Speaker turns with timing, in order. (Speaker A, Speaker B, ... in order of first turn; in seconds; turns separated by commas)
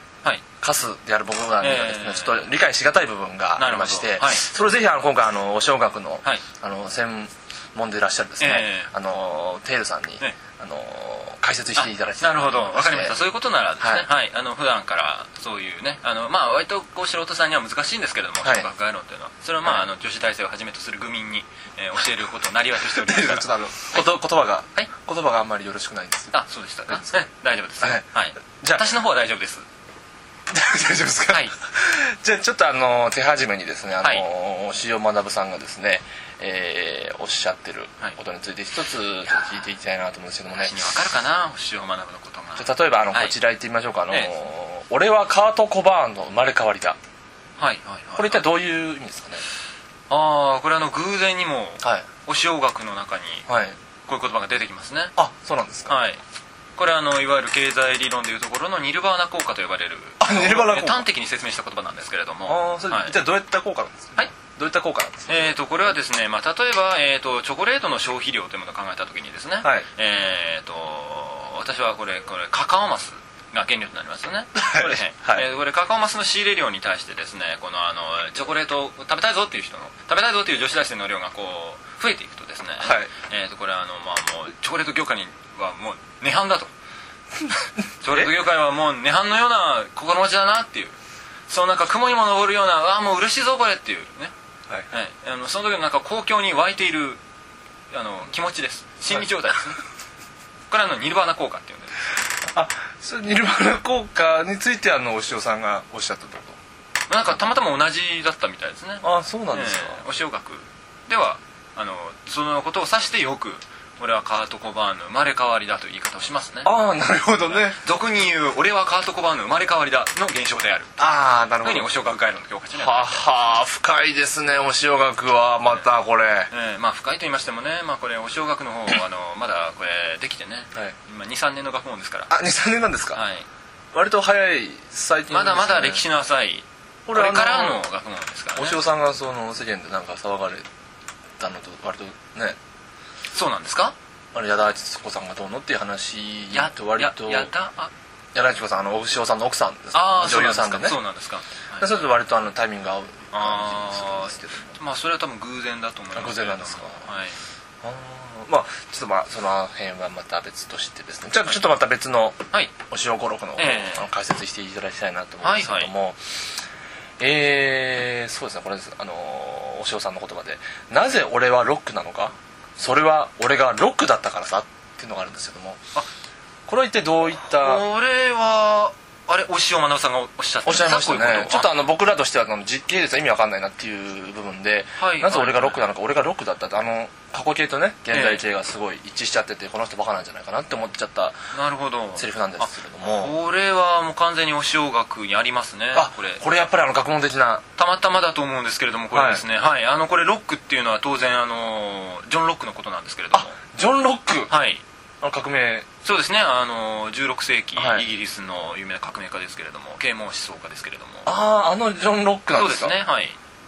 Speaker A: 0.6-13.2, Speaker B: 1.6-2.5, Speaker B: 3.6-4.4, Speaker B: 8.4-8.9, Speaker B: 11.8-23.5, Speaker A: 13.8-14.1, Speaker A: 22.8-26.3, Speaker B: 26.3-29.6, Speaker A: 26.9-27.2, Speaker A: 30.5-40.8, Speaker B: 40.6-43.4, Speaker A: 42.6-47.0, Speaker B: 47.6-48.4, Speaker A: 48.1-49.4, Speaker B: 50.1-53.5, Speaker A: 53.5-53.8, Speaker B: 54.0-55.1, Speaker A: 55.1-56.0, Speaker B: 55.9-56.2, Speaker B: 56.8-63.2, Speaker A: 60.2-61.0, Speaker A: 62.5-65.5, Speaker B: 65.3-86.7, Speaker A: 69.6-69.9, Speaker A: 74.5-75.5, Speaker A: 82.8-83.1, Speaker B: 88.0-91.0, Speaker B: 91.5-94.3, Speaker B: 94.9-97.2, Speaker B: 97.9-99.8, Speaker B: 100.7-101.9, Speaker A: 102.5-106.6, Speaker B: 107.1-116.7, Speaker A: 109.0-110.0, Speaker A: 116.6-117.8, Speaker B: 117.5-120.9, Speaker A: 121.0-121.9, Speaker B: 121.6-123.4, Speaker A: 122.7-126.5, Speaker B: 126.5-132.3, Speaker A: 132.3-133.2, Speaker B: 133.1-133.5, Speaker A: 133.9-136.0, Speaker B: 135.3-138.8, Speaker A: 137.1-137.8, Speaker A: 138.5-140.7, Speaker A: 141.4-142.6, Speaker B: 143.3-143.9, Speaker A: 144.3-147.5, Speaker B: 146.5-147.9, Speaker A: 148.3-151.0, Speaker B: 149.9-151.9, Speaker A: 151.8-154.8, Speaker B: 153.3-157.4, Speaker A: 156.1-157.1, Speaker A: 157.8-166.2, Speaker B: 163.6-164.1, Speaker B: 165.4-165.9, Speaker A: 167.2-175.8, Speaker A: 176.7-177.8, Speaker B: 177.4-181.7, Speaker A: 180.6-191.4, Speaker B: 185.0-185.8, Speaker B: 188.1-188.4, Speaker B: 191.5-196.4, Speaker A: 192.2-193.3, Speaker A: 195.9-197.6, Speaker B: 197.8-203.5, Speaker A: 199.1-199.4, Speaker A: 203.3-204.5, Speaker B: 204.5-204.8, Speaker A: 205.2-205.8, Speaker B: 206.0-211.3, Speaker A: 207.8-208.0, Speaker A: 211.2-212.9, Speaker B: 212.5-213.4